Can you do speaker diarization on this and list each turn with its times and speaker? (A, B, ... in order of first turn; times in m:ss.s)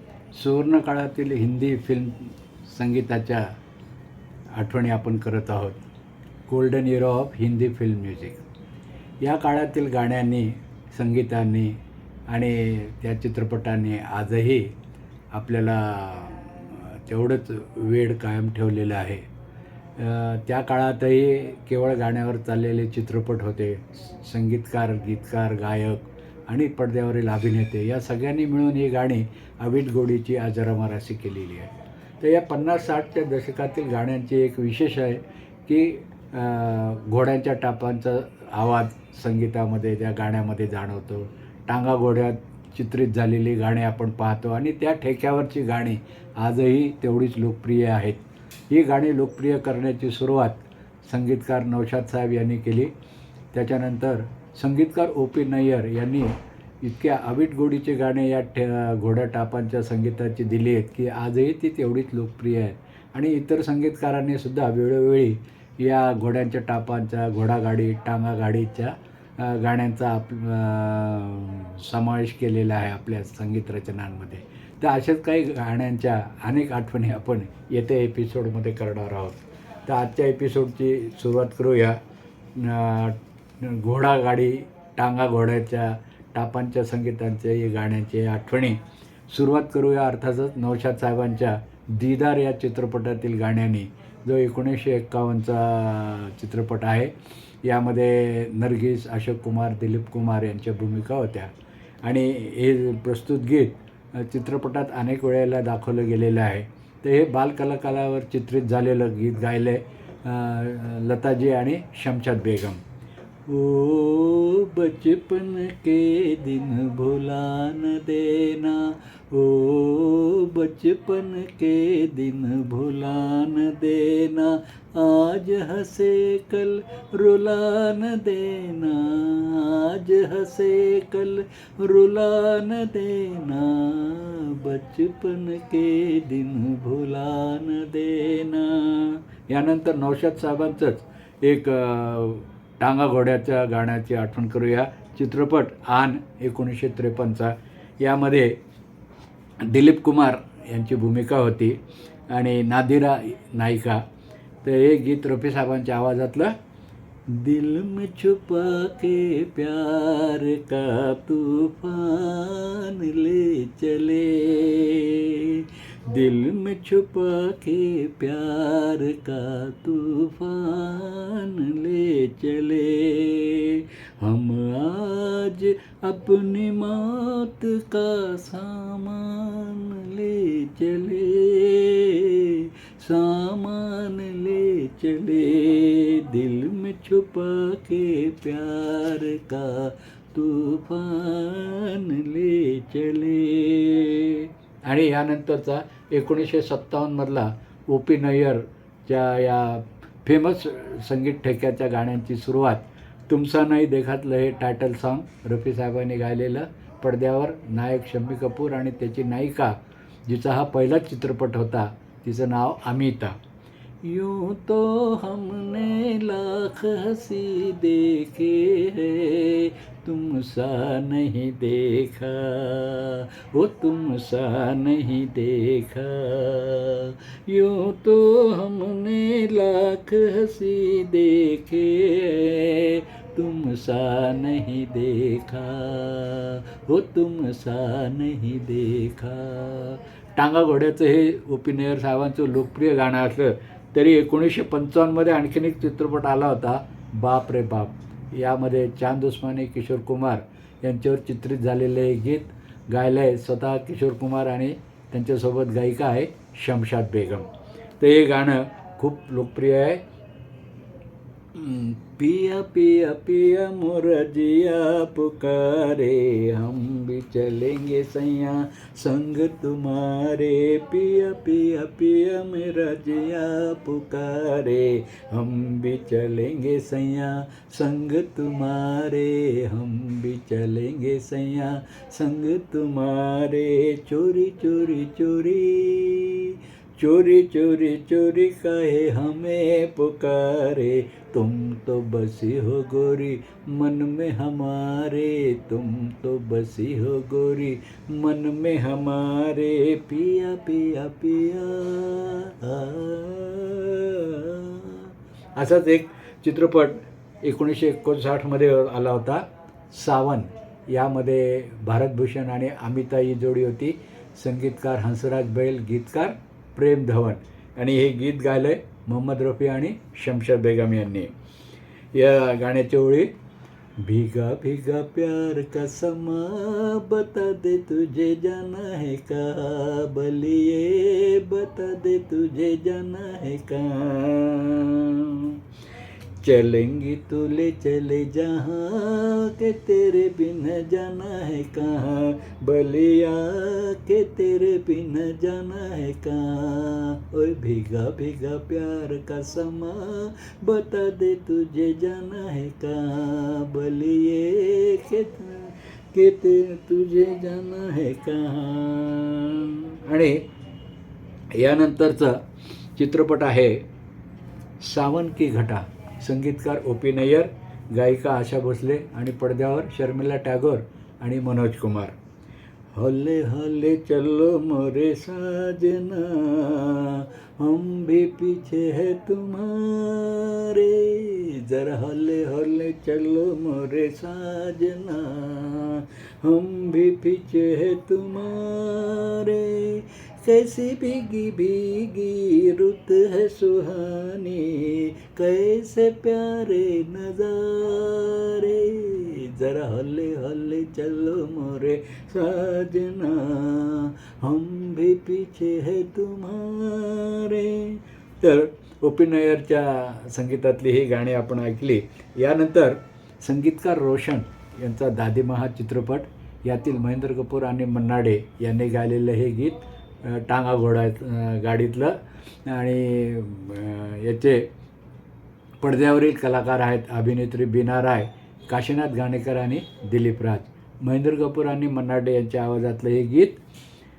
0:00.4-0:03.4 A
0:04.6-0:05.8 A
0:06.5-0:08.4 A
0:09.2-0:11.8 A
0:12.3-0:14.7 A
0:15.3-0:19.2 A
0:20.0-0:52.9 A
0:53.5-1:22.0 A
1:22.6-1:28.8 A
1:29.3-1:37.1 A
1:37.6-1:41.5 A
1:42.0-1:52.8 A
1:53.5-2:28.5 A
2:29.6-2:31.8 A
2:32.3-2:34.0 A
2:34.6-2:36.5 A
2:37.3-3:33.4 A
3:34.0-4:17.5 A
4:18.0-4:20.0 A
4:21.5-5:21.3 A
5:22.1-5:23.3 A
5:24.0-5:35.6 A
5:36.4-6:00.4 A
6:01.6-6:02.4 A
6:03.0-6:03.8 A
6:04.8-6:12.2 A
6:12.9-7:04.6 A
7:05.8-7:13.6 A